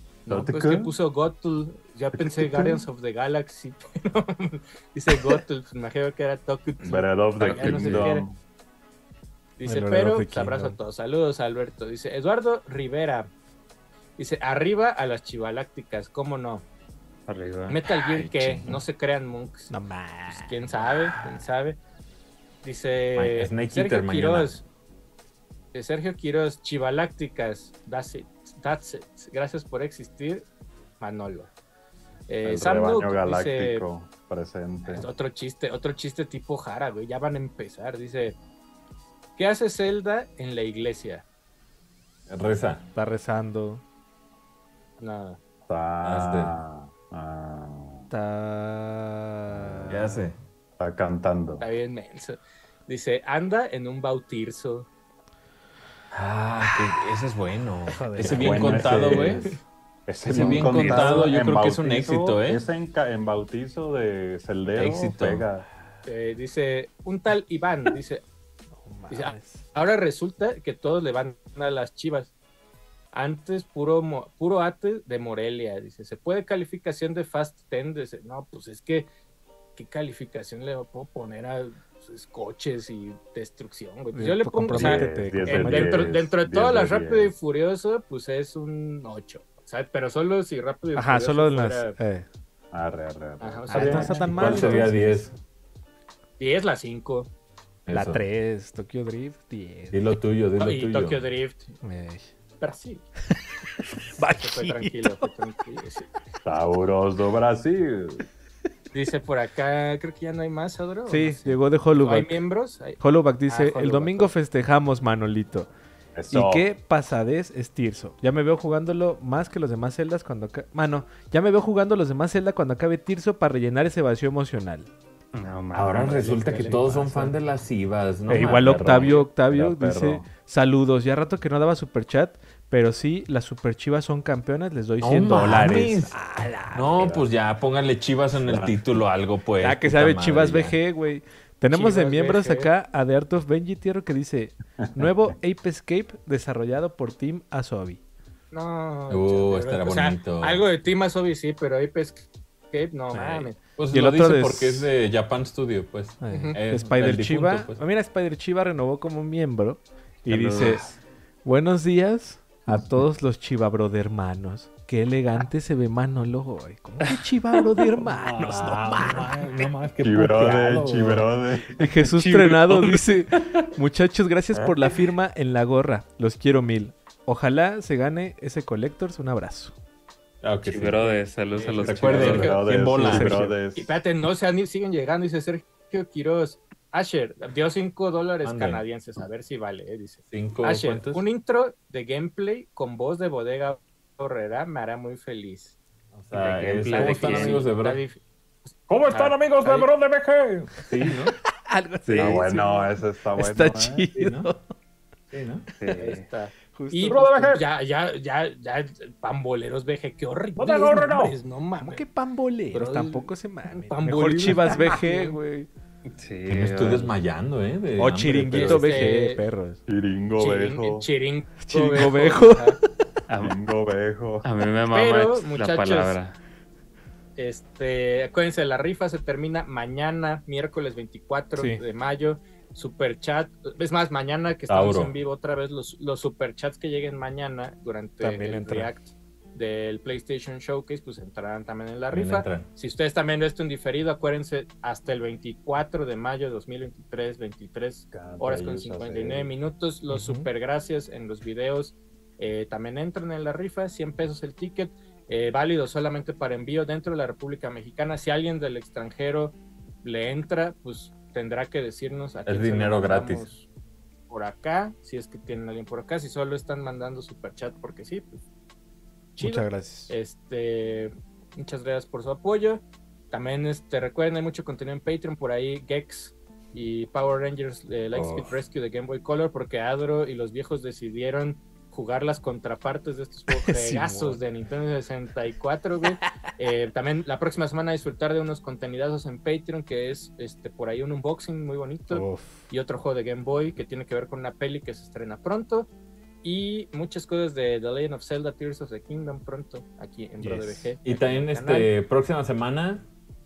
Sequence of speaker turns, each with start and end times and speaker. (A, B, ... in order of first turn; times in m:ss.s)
0:00.3-0:08.3 A
0:00.3-0:00.9 B
0:02.2-0:02.8 B
0:06.8-0:08.4 B
0:07.4-0:08.2 C
0:09.6-0:13.3 A
0:09.6-0:10.8 D
0:14.2-0:16.7 A
0:17.3-0:17.8 E
0:17.7-0:19.7 A
0:18.0-0:18.8 C
0:19.7-0:20.9 D
0:20.3-0:21.8 A
0:22.6-0:24.6 A
0:23.2-0:24.6 C
0:25.7-0:30.5 A
0:31.0-0:31.5 A
0:32.3-0:33.9 A
0:32.4-0:35.1 B
0:34.9-0:38.4 A
0:39.4-0:41.2 A
0:42.3-0:42.9 C
0:43.0-0:43.8 D
0:45.0-0:45.4 A
0:45.7-0:48.1 B
0:46.0-0:46.6 C
0:48.1-0:50.2 D
0:49.5-0:50.1 B
0:49.9-0:50.4 C
0:50.8-0:51.6 B
0:51.6-0:54.9 A
0:56.1-0:59.6 C
0:57.9-0:59.1 D
0:58.2-1:05.7 B
0:59.1-0:59.6 A
1:00.3-1:02.6 C
1:00.4-1:01.3 E
1:04.7-1:05.5 C
1:06.1-1:08.2 A
1:08.7-1:09.6 D
1:09.1-1:12.3 A
1:13.1-1:19.1 A
1:19.8-1:32.0 A
1:24.1-1:26.2 D
1:24.7-1:27.3 B
1:31.0-1:32.3 D
1:32.7-1:34.9 B
1:33.4-1:34.8 A
1:33.7-1:35.3 D
1:33.7-1:35.3 C
1:36.4-1:37.3 A
1:37.9-1:38.2 C
1:37.9-1:40.0 D
1:39.9-1:41.3 C
1:40.6-1:41.8 A
1:41.8-1:42.3 D
1:42.6-1:43.0 A
1:43.3-1:45.3 D
1:44.4-1:46.1 A
1:46.4-1:48.3 B
1:48.9-1:54.3 A
1:51.1-1:52.4 D
1:53.0-1:55.7 D
1:56.2-1:56.7 B
1:56.3-2:04.9 D
2:05.3-2:06.4 E
2:05.7-2:09.3 C
2:06.0-2:06.8 A
2:06.5-2:07.4 D
2:08.3-2:17.2 D
2:08.5-2:10.3 B
2:15.0-2:16.2 C
2:16.7-2:20.8 C
2:18.4-2:18.8 B
2:19.6-2:28.0 D
2:21.7-2:22.7 A
2:28.5-2:33.6 A
2:29.1-2:30.6 C
2:33.3-2:37.8 C
2:33.9-2:34.9 D
2:36.2-2:49.7 D
2:36.3-2:36.6 A
2:40.3-2:41.0 C
2:48.0-2:51.3 C
2:50.0-2:52.1 B
2:51.8-2:59.8 D
2:52.3-2:53.7 C
2:54.5-2:54.9 C
3:00.4-3:01.1 C
3:00.6-3:02.5 E
3:01.6-3:03.5 C
3:01.8-3:02.1 D
3:02.0-3:02.6 A
3:02.1-3:04.0 B
3:03.0-3:03.5 D
3:03.8-3:15.8 A
3:08.4-3:08.8 C
3:10.3-3:11.2 C
3:16.1-3:18.0 C
3:16.3-3:17.7 E
3:16.7-3:18.7 A
3:18.9-3:21.4 C
3:20.9-3:24.6 D
3:22.1-3:22.5 C
3:22.1-3:24.1 B
3:24.1-3:24.5 C
3:25.3-3:25.7 C
3:25.8-3:26.2 E
3:25.9-3:32.0 A
3:26.7-3:27.3 D
3:27.1-3:27.7 C
3:30.6-3:31.4 C
3:31.8-3:35.7 D
3:32.7-3:35.4 A
3:36.2-3:37.2 E
3:36.5-3:39.1 C
3:38.0-3:39.8 D
3:38.5-3:39.4 A
3:39.9-3:41.1 B
3:40.4-3:42.8 A
3:41.6-3:42.8 D
3:43.3-3:43.6 E
3:43.4-3:44.5 B
3:44.4-3:46.4 E
3:44.9-3:46.2 A
3:47.4-4:23.7 A
3:54.7-3:55.2 C
3:58.2-3:58.9 D
4:02.1-4:02.7 C
4:08.1-4:09.6 B
4:10.1-4:10.5 D
4:22.5-4:23.5 C
4:24.3-4:28.4 A
4:29.4-4:55.9 A
4:29.4-4:30.1 D
4:38.1-4:38.5 C
4:43.5-4:44.4 D
4:52.1-4:52.6 D
4:56.4-5:01.9 A
5:00.4-5:01.0 D
5:01.0-5:03.1 C